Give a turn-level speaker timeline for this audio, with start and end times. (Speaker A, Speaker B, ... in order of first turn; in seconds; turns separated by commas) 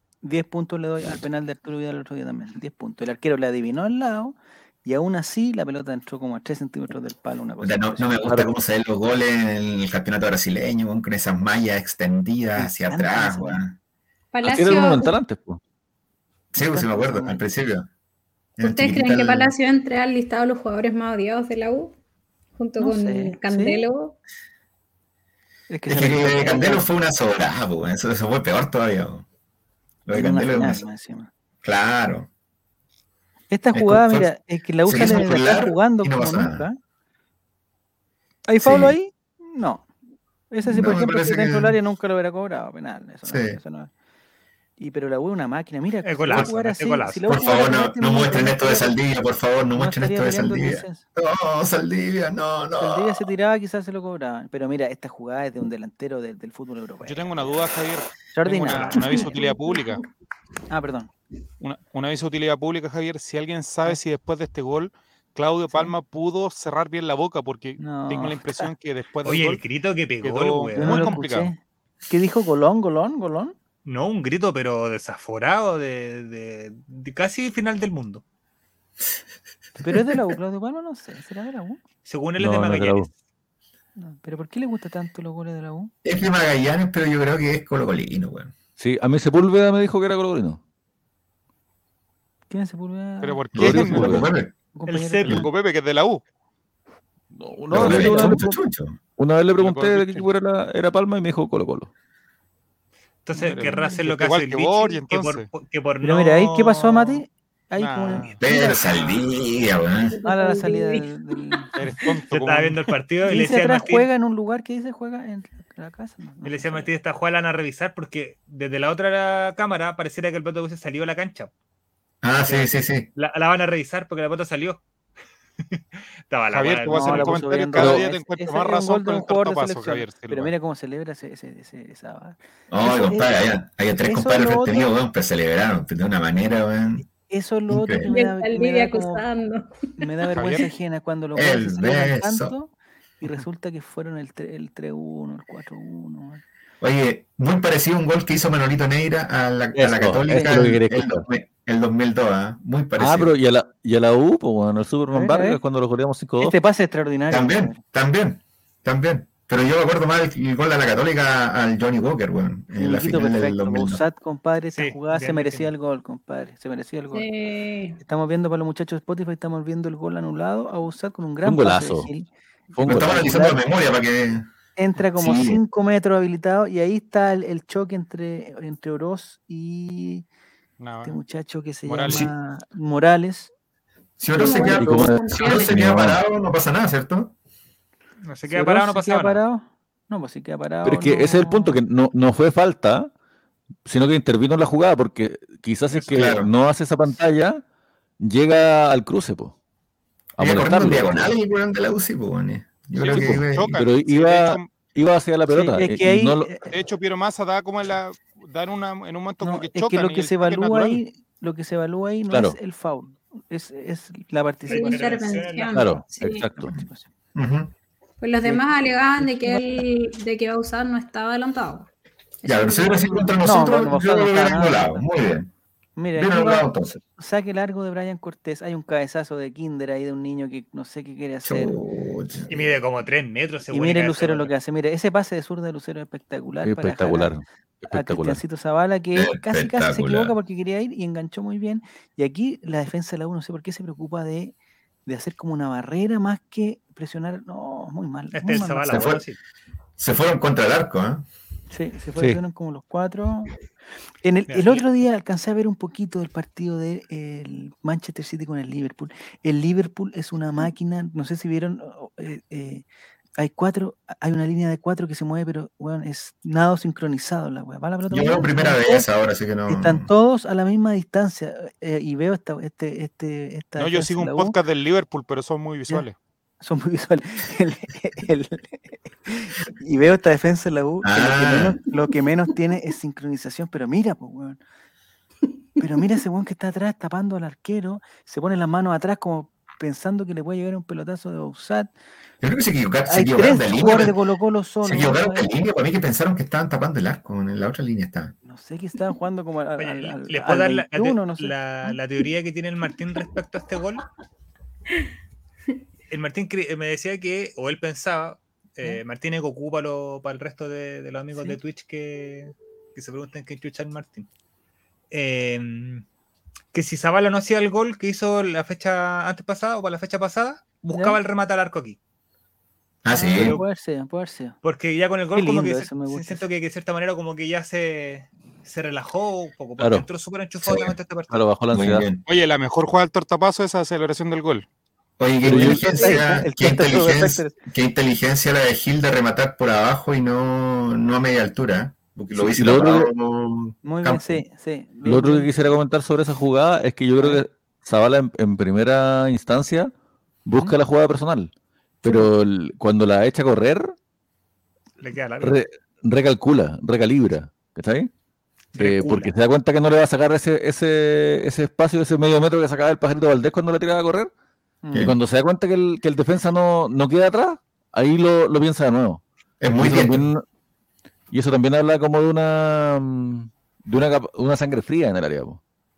Speaker A: 0.2-8.1, Speaker B: 7.6-13.8, Speaker A: 12.6-13.6, Speaker C: 14.3-15.2, Speaker D: 14.4-15.6, Speaker B: 16.5-17.9, Speaker A: 16.6-17.4, Speaker B: 18.6-19.5, Speaker C: 18.6-22.0, Speaker C: 22.6-24.2, Speaker A: 22.8-23.8, Speaker A: 25.7-26.9, Speaker B: 25.9-29.3, Speaker B: 30.1-30.9, Speaker A: 30.1-31.3, Speaker B: 31.6-32.3, Speaker A: 33.5-36.8, Speaker B: 33.7-34.3, Speaker B: 34.9-36.7, Speaker A: 38.5-39.9, Speaker B: 38.6-39.0, Speaker A: 40.5-43.9, Speaker B: 40.6-41.8, Speaker B: 43.3-43.6, Speaker A: 44.8-49.0, Speaker E: 46.0-47.2, Speaker B: 47.3-53.3, Speaker A: 49.8-51.0, Speaker A: 52.8-57.6, Speaker F: 57.0-60.0, Speaker A: 58.3-59.4, Speaker E: 58.7-59.0, Speaker A: 60.7-61.1, Speaker F: 61.6-69.6, Speaker A: 65.7-65.9, Speaker A: 67.8-68.7, Speaker E: 69.2-71.2, Speaker F: 70.2-71.5, Speaker A: 70.8-71.6, Speaker A: 72.1-73.5, Speaker E: 73.9-78.2, Speaker A: 79.8-81.8, Speaker E: 82.1-83.1, Speaker D: 82.4-83.1, Speaker A: 84.0-85.9, Speaker B: 86.0-88.5, Speaker D: 88.8-90.6, Speaker A: 92.5-93.4, Speaker F: 93.2-94.2, Speaker B: 93.5-94.5, Speaker D: 93.6-94.3, Speaker A: 94.7-95.5, Speaker E: 94.9-95.4, Speaker F: 95.3-96.2, Speaker D: 97.3-98.5, Speaker B: 97.7-99.0, Speaker A: 97.8-98.4, Speaker D: 99.2-101.9, Speaker F: 99.6-100.3, Speaker E: 103.2-107.2, Speaker F: 103.4-105.5, Speaker A: 106.0-109.1, Speaker F: 107.8-108.4, Speaker B: 108.4-110.2, Speaker C: 110.0-111.8, Speaker A: 110.3-111.9, Speaker F: 111.8-112.9, Speaker E: 112.3-114.1, Speaker A: 113.3-116.9, Speaker E: 116.4-121.5, Speaker B: 122.2-123.1, Speaker E: 122.5-124.8, Speaker E: 125.7-127.4, Speaker F: 126.5-130.5, Speaker A: 126.9-133.4, Speaker D: 127.8-128.0, Speaker B: 132.7-137.1, Speaker A: 134.0-134.9, Speaker A: 137.3-139.3, Speaker B: 137.7-138.1, Speaker C: 138.1-140.1, Speaker A: 140.0-146.4, Speaker F: 140.3-140.7, Speaker B: 141.3-142.5, Speaker B: 146.8-153.3, Speaker D: 149.8-151.2, Speaker D: 153.0-156.6, Speaker A: 155.1-155.6, Speaker A: 156.4-157.8, Speaker B: 157.3-164.0, Speaker A: 162.8-167.3, Speaker E: 164.8-165.7, Speaker C: 167.1-168.0, Speaker A: 168.0-172.3, Speaker D: 171.4-172.1, Speaker D: 172.8-173.3, Speaker B: 172.8-174.5, Speaker A: 172.9-173.6, Speaker A: 174.8-180.3, Speaker B: 175.2-175.6, Speaker F: 180.8-181.2, Speaker A: 181.0-183.5, Speaker F: 181.9-182.3, Speaker B: 184.2-187.3, Speaker C: 184.3-185.8, Speaker D: 184.7-186.2, Speaker E: 188.3-189.4, Speaker A: 188.5-191.8, Speaker D: 190.8-193.1, Speaker D: 193.9-197.6, Speaker B: 196.1-196.5, Speaker D: 198.2-199.5, Speaker D: 200.4-201.3, Speaker B: 200.4-203.9, Speaker F: 203.0-204.8, Speaker D: 203.1-206.6, Speaker A: 205.5-206.7, Speaker F: 206.7-211.0, Speaker A: 209.4-215.2, Speaker D: 212.3-212.6, Speaker E: 214.7-215.8, Speaker C: 214.7-216.5, Speaker D: 215.7-216.7, Speaker A: 216.6-217.1, Speaker B: 217.3-217.7, Speaker C: 218.2-221.9, Speaker A: 218.4-219.8, Speaker C: 222.4-223.5, Speaker B: 222.4-225.5, Speaker A: 223.4-225.0, Speaker A: 226.0-231.8, Speaker B: 226.2-227.0, Speaker B: 231.4-232.8, Speaker E: 232.5-234.5, Speaker A: 233.7-237.3, Speaker D: 236.7-238.4, Speaker A: 237.9-244.5, Speaker B: 239.2-240.4, Speaker A: 245.1-249.1, Speaker E: 248.3-249.4, Speaker B: 248.9-249.2, Speaker B: 250.0-251.2, Speaker A: 251.7-253.5, Speaker A: 254.2-262.9, Speaker E: 254.5-254.8, Speaker A: 263.4-269.1, Speaker B: 268.1-270.1, Speaker A: 269.7-274.6, Speaker F: 273.8-276.2, Speaker A: 276.6-284.6, Speaker B: 281.0-281.8, Speaker A: 285.8-291.9, Speaker B: 292.4-294.1, Speaker A: 293.1-295.5, Speaker B: 294.8-298.3, Speaker A: 298.4-301.9, Speaker E: 299.8-304.1, Speaker E: 306.1-314.3, Speaker E: 315.1-316.1, Speaker E: 316.7-322.0, Speaker A: 320.9-321.2, Speaker B: 323.0-323.6, Speaker A: 323.1-324.6, Speaker E: 324.6-331.4, Speaker A: 325.3-326.5, Speaker D: 329.8-330.1, Speaker B: 330.6-330.9, Speaker D: 331.3-332.1, Speaker B: 331.7-332.2, Speaker F: 332.3-334.6, Speaker B: 335.2-344.4, Speaker A: 335.4-337.5, Speaker D: 335.4-336.1, Speaker D: 342.4-343.1, Speaker A: 343.8-345.5, Speaker D: 345.1-349.9, Speaker A: 347.2-347.4, Speaker D: 350.4-351.5, Speaker D: 352.0-353.9, Speaker A: 352.0-352.3, Speaker E: 355.0-355.6, Speaker D: 355.4-358.1, Speaker E: 358.7-359.3, Speaker D: 358.8-364.3, Speaker A: 364.8-365.1, Speaker D: 365.0-370.4, Speaker B: 369.6-370.3, Speaker D: 371.3-375.6